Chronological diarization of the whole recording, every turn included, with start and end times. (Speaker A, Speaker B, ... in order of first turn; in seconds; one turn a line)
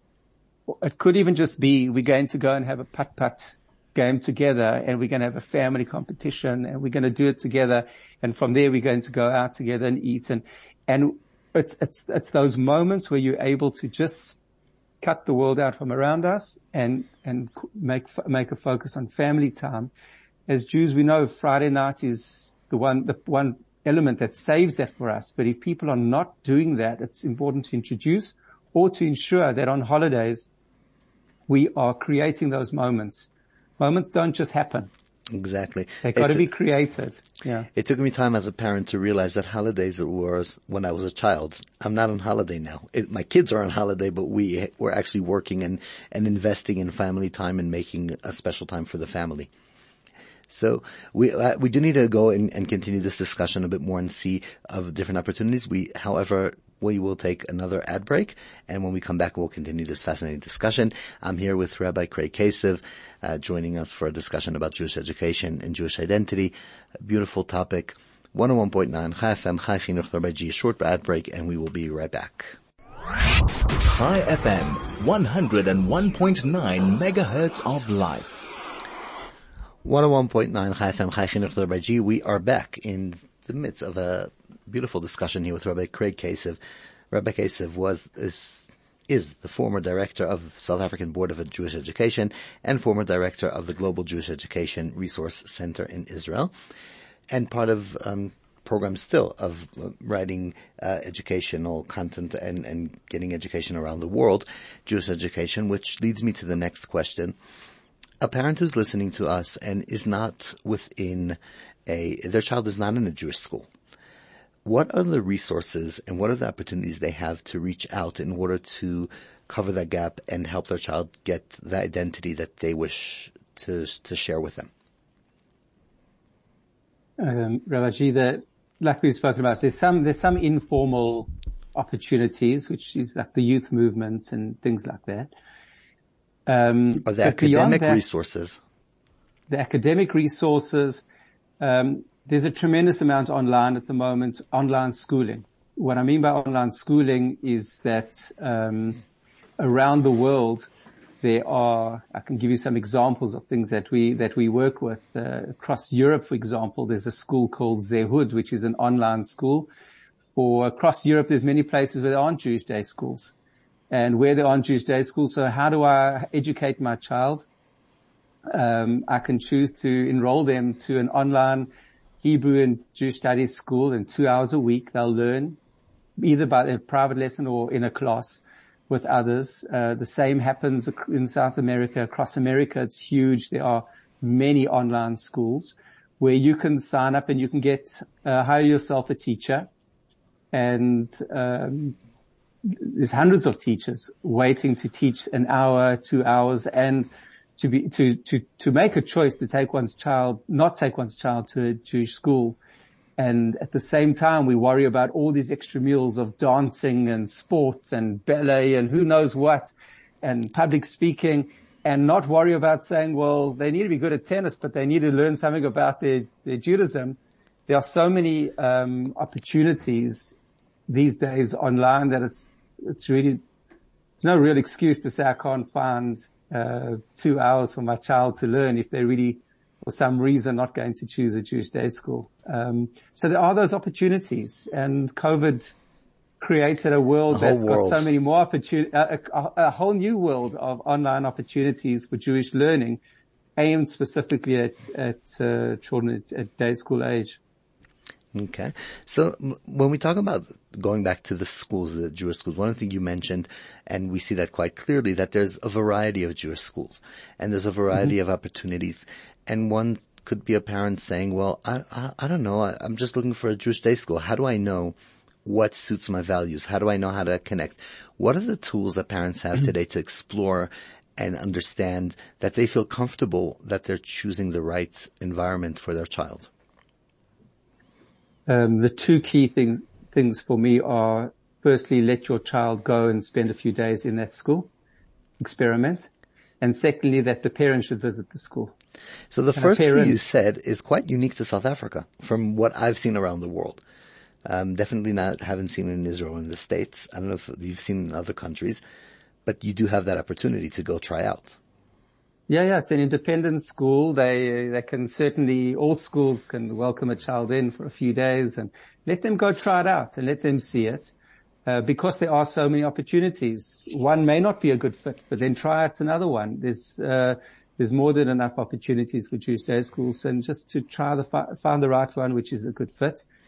Speaker A: 0.7-14.4
Speaker A: 15.0-19.9
Speaker A: 20.5-30.5
Speaker A: 31.5-33.3
Speaker A: 33.8-34.9
Speaker B: 35.3-36.4
Speaker A: 36.0-37.7
Speaker B: 37.7-49.5
Speaker B: 50.5-72.5
Speaker C: 73.8-78.4
Speaker B: 79.8-86.6
Speaker B: 87.1-96.5
Speaker B: 97.3-107.3
Speaker B: 108.2-113.7
Speaker B: 114.6-124.7
Speaker A: 127.2-135.3
Speaker A: 136.5-138.0
Speaker B: 137.1-138.6
Speaker A: 139.5-141.0
Speaker A: 141.6-149.0
Speaker A: 149.6-150.7
Speaker A: 151.2-159.7
Speaker A: 160.3-163.3
Speaker A: 163.9-167.5
Speaker A: 168.5-171.7
Speaker A: 172.2-175.6
Speaker A: 176.2-189.7
Speaker A: 190.5-191.9
Speaker A: 192.6-202.6
Speaker A: 203.2-220.3
Speaker A: 220.9-223.4
Speaker A: 224.2-235.7
Speaker A: 236.4-243.0
Speaker B: 237.3-238.1
Speaker A: 243.6-247.4
Speaker B: 248.3-276.5
Speaker A: 278.5-284.7
Speaker A: 285.4-286.1
Speaker A: 286.6-288.7
Speaker B: 289.3-293.8
Speaker A: 289.6-290.2
Speaker B: 294.4-298.8
Speaker B: 299.4-301.6
Speaker A: 302.5-311.1
Speaker A: 311.6-323.2